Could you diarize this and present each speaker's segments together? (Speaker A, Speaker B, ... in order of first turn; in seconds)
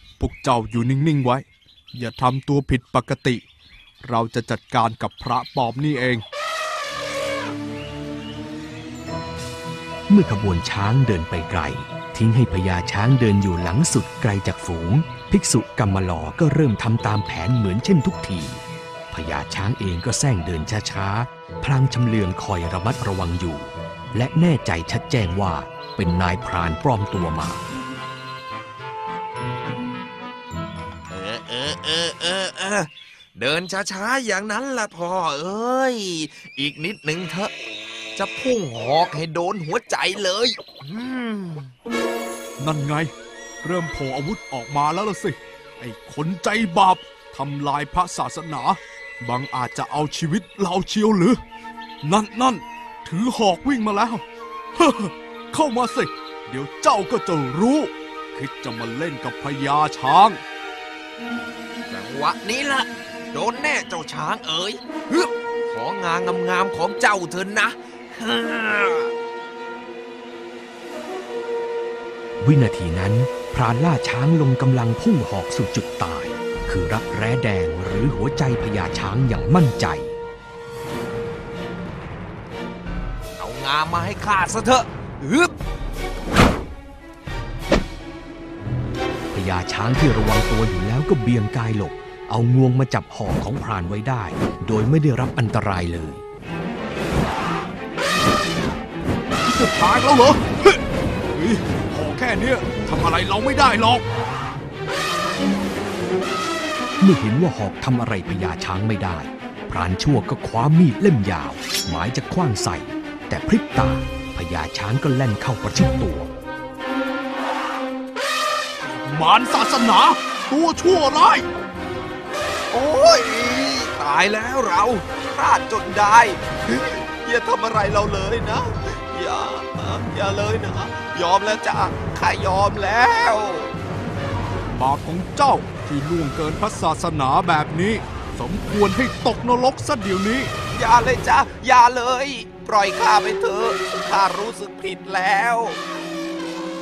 Speaker A: 0.2-3.4, 4.0-6.2, 42.6-51.4, 52.0-54.2, 54.8-60.4, 99.4-100.8, 101.3-104.0, 118.8-121.5, 134.7-140.5
Speaker B: 10.1-27.6, 72.4-80.1, 89.3-96.2, 107.0-116.3
Speaker C: 31.1-37.5, 38.1-41.7, 61.9-69.1, 83.4-85.5, 122.7-133.7, 140.7-145.8